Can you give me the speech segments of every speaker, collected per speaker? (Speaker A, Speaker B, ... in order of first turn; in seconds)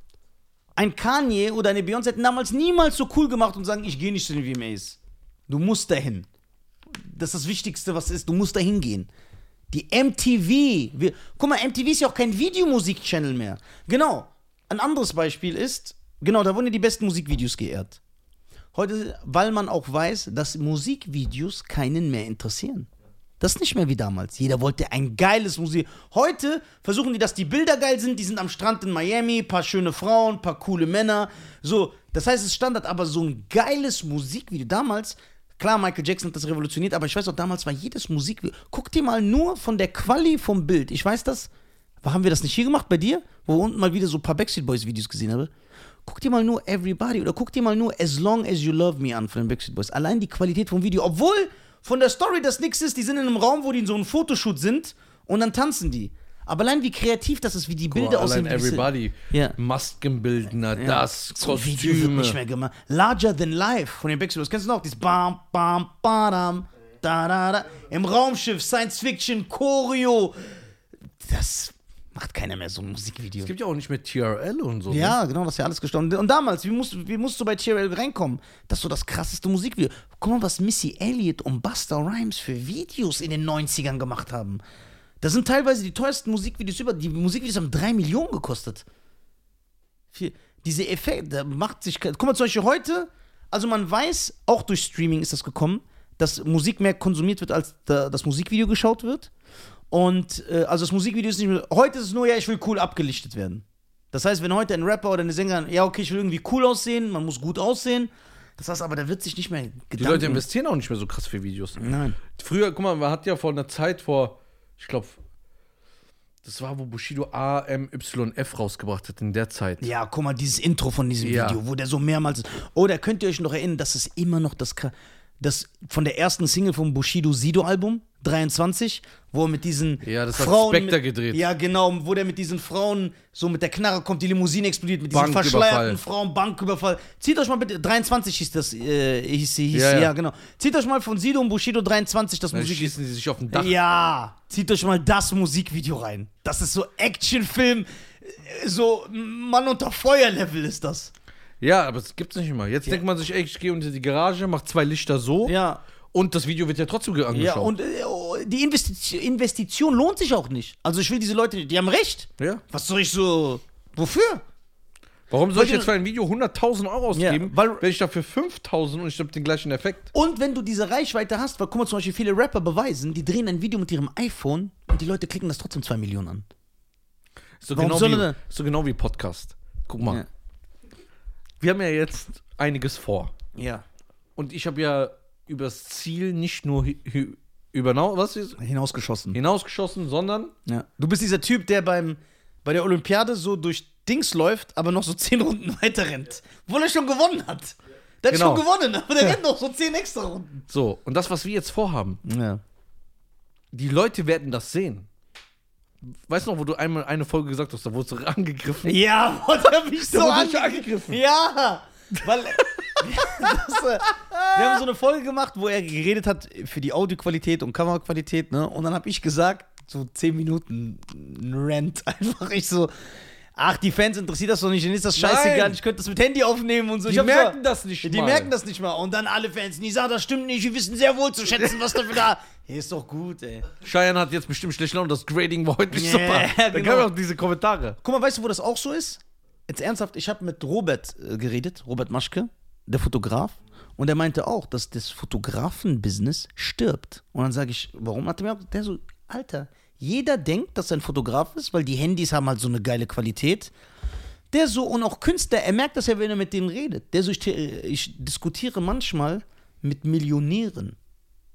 Speaker A: 0.8-5.0, 5.5-6.3, 6.9-9.1, 9.7-18.0, 18.7-22.9, 23.4-41.5, 42.0-45.5, 46.0-59.5, 60.8-70.6, 71.2-73.5, 74.9-84.6, 85.2-88.8, 90.1-99.3, 99.9-110.4, 111.8-112.2, 119.8-142.9, 143.5-151.1, 155.4-155.8, 157.3-164.4, 165.5-165.9, 167.1-167.8, 170.1-176.4, 177.7-178.4, 183.5-183.8, 188.6-189.4, 190.7-200.6, 202.2-202.6, 208.8-222.9, 223.6-233.7, 235.9-237.1, 238.0-253.7, 254.5-261.0
Speaker B: 57.9-62.4, 73.4-75.2, 110.0-115.2, 116.4-119.9, 121.2-121.6, 130.0-131.4, 135.1-136.0, 139.7-140.1, 142.5-143.8, 151.6-155.5, 156.1-157.7, 165.3-170.1, 177.6-180.2, 181.6-183.3, 184.3-188.6, 189.3-190.5, 198.3-198.6, 200.7-202.2, 203.7-205.1, 206.0-208.9, 210.1-211.2, 212.3-213.6, 214.1-214.8, 225.1-225.8, 227.0-228.5, 231.6-232.0, 233.8-238.0